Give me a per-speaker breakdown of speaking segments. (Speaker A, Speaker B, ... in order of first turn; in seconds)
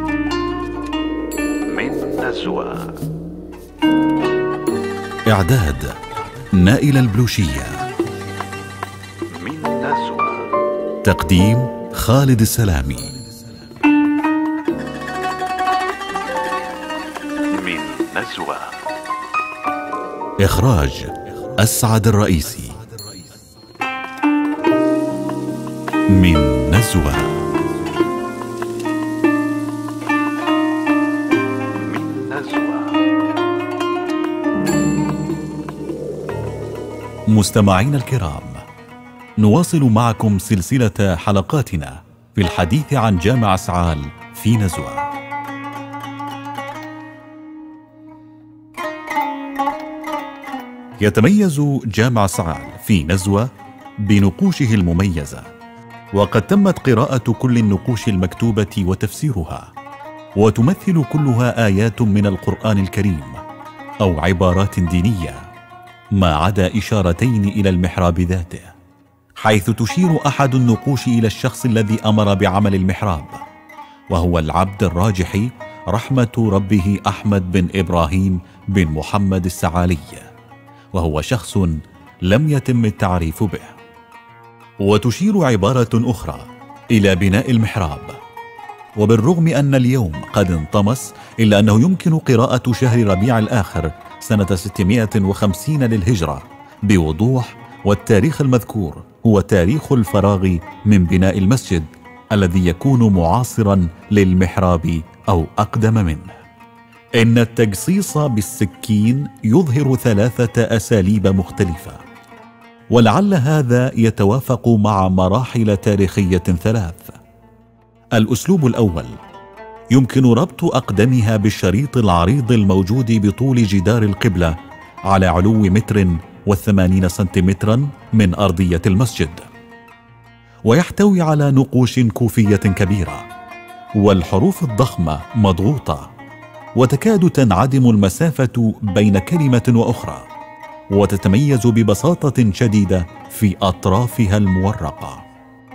Speaker A: 1.7-3.0, 9.3-10.5, 17.6-18.8, 31.9-33.0
Speaker B: 5.3-6.0, 6.5-7.9, 11.0-13.2, 17.8-18.5, 20.4-22.8, 26.1-27.5, 37.3-38.6, 39.4-45.1, 51.0-55.5, 56.1-59.7, 60.4-63.4, 64.0-65.5, 66.1-68.7, 69.4-73.4, 74.1-80.3, 80.9-83.8, 84.8-88.2, 89.0-106.4, 107.2-112.0, 112.9-117.2, 118.1-119.2, 119.9-124.6, 125.1-129.5, 130.7-133.3, 134.0-136.1, 136.8-140.3, 140.9-145.2